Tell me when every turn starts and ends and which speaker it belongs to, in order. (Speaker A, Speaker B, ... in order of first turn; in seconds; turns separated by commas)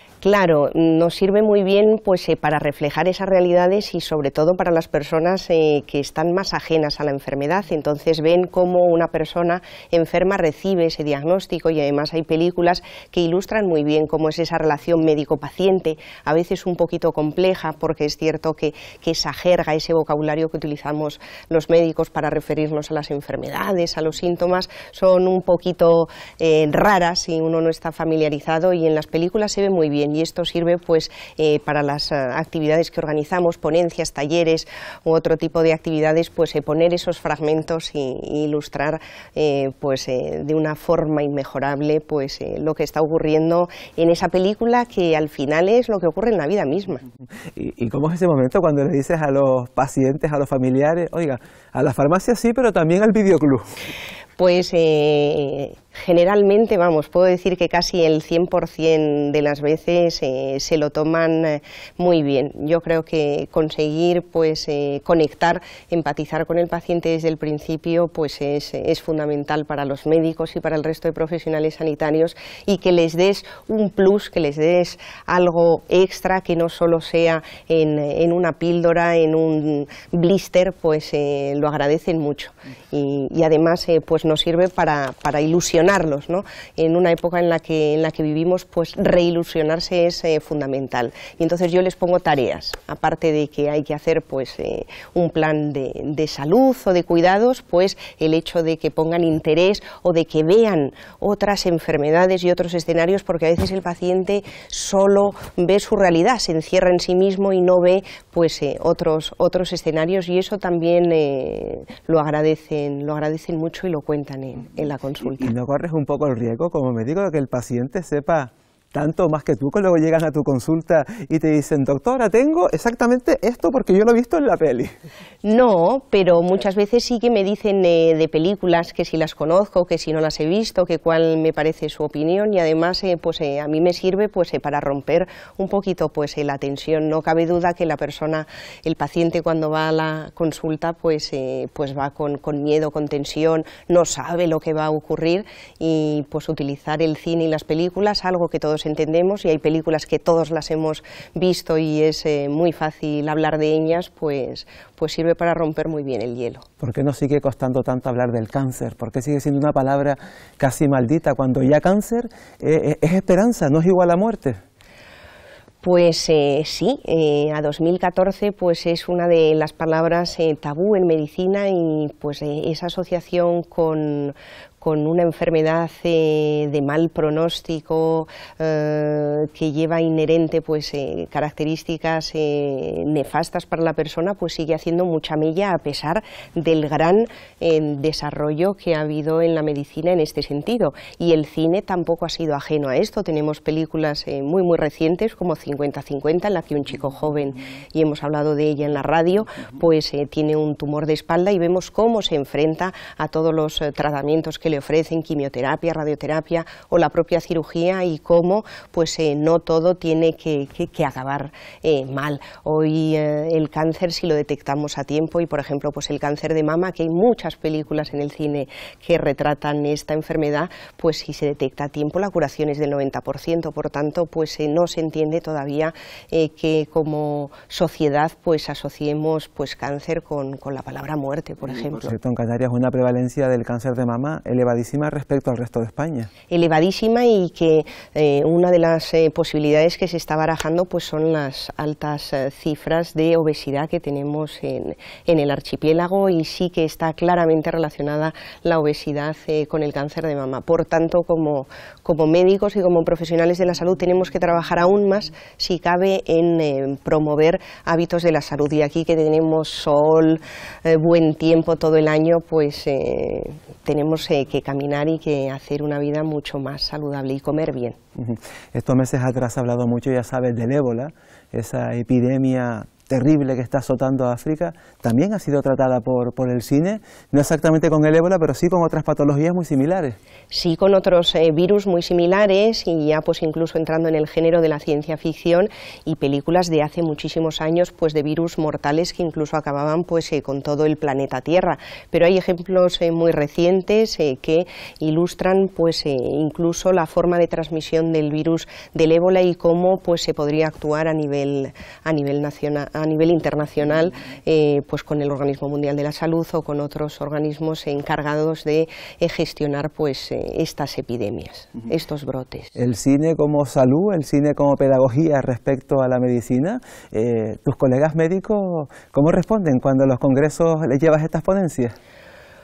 Speaker A: 0.2-47.0, Speaker B: 47.5-53.6, Speaker A: 54.4-115.5, Speaker B: 115.4-124.9, Speaker A: 125.4-156.6, Speaker B: 156.8-164.6, Speaker A: 165.8-232.1, Speaker B: 231.7-236.3, Speaker A: 236.5-268.0, Speaker B: 268.1-280.2, Speaker A: 280.5-312.7, Speaker B: 312.8-321.9